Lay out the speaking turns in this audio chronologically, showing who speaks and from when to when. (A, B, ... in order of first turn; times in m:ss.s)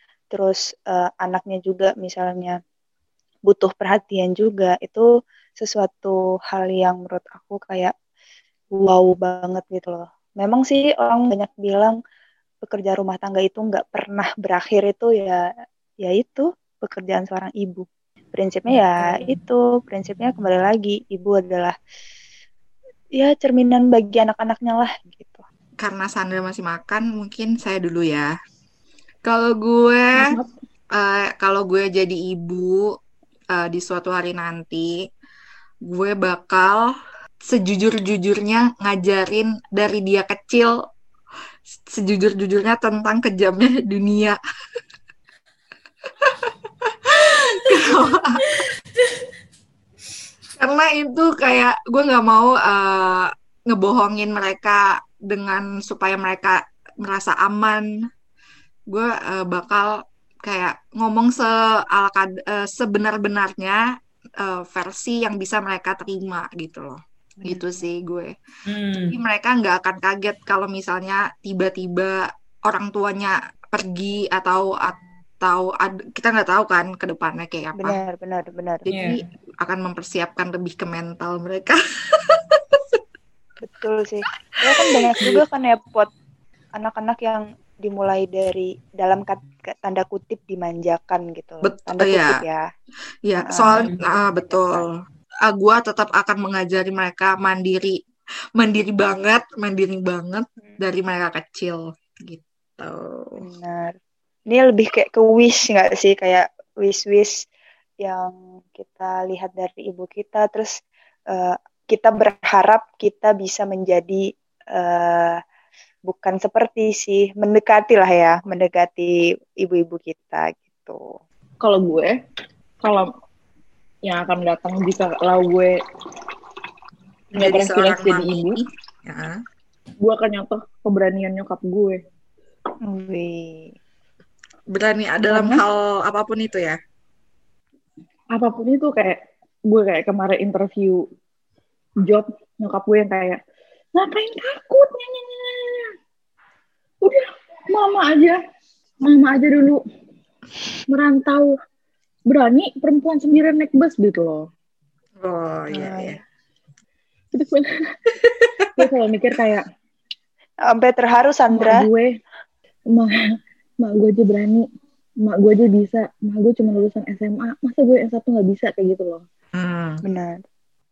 0:00.3-0:02.6 A
0:03.5-0:05.1 A
0:05.6-0:07.9 A
0:08.8-0:12.0 A
0:12.6-0:15.4 A
0:16.0-0:21.8 A
0:23.2-0:25.4 A
0:25.8-0:28.3 B
0:29.2-0:30.3 B
0:30.1-0:30.5 C
0:30.9-0:32.9 B
0:33.5-0:34.9 B
0:35.9-0:36.9 B
0:37.4-0:40.7 B
0:41.7-0:44.4 B
0:46.2-0:48.5 B
0:47.7-0:48.0 D
0:48.6-0:49.2 D
0:50.6-0:57.8 B
0:58.9-1:03.8 B
1:04.4-1:08.3 B
1:08.7-1:09.2 D
1:09.1-1:18.0 B
1:17.8-1:18.8 A
1:18.8-1:23.0 B
1:18.9-1:19.2 D
1:23.6-1:26.1 A
1:24.7-1:25.3 B
1:26.8-1:32.6 A
1:31.6-1:32.4 B
1:33.3-1:34.9 B
1:33.4-1:34.8 A
1:33.7-1:34.0 D
1:35.5-1:38.0 B
1:38.6-1:43.4 B
1:43.4-1:43.9 A
1:44.5-1:47.4 A
1:48.0-1:50.7 A
1:51.3-1:54.2 A
1:54.8-1:55.4 A
1:56.1-2:01.0 A
2:01.6-2:02.1 C
2:02.8-2:03.1 C
2:04.0-2:05.7 C
2:07.3-2:08.6 C
2:07.4-2:09.4 B
2:10.0-2:12.0 C
2:12.9-2:13.7 A
2:14.7-2:16.8 B
2:15.3-2:15.6 C
2:18.3-2:19.2 C
2:19.7-2:21.0 C
2:22.0-2:23.4 C
2:23.9-2:25.9 C
2:27.0-2:28.4 C
2:29.0-2:29.8 C
2:30.9-2:31.5 C
2:32.3-2:34.5 C
2:35.2-2:36.2 B
2:35.7-2:36.2 A
2:37.3-2:37.9 C
2:38.3-2:38.7 B
2:38.8-2:39.6 C
2:40.7-2:41.8 A
2:41.5-2:42.1 C
2:42.9-2:44.6 C
2:45.2-2:49.2 C
2:49.5-2:50.0 B
2:50.0-2:50.4 A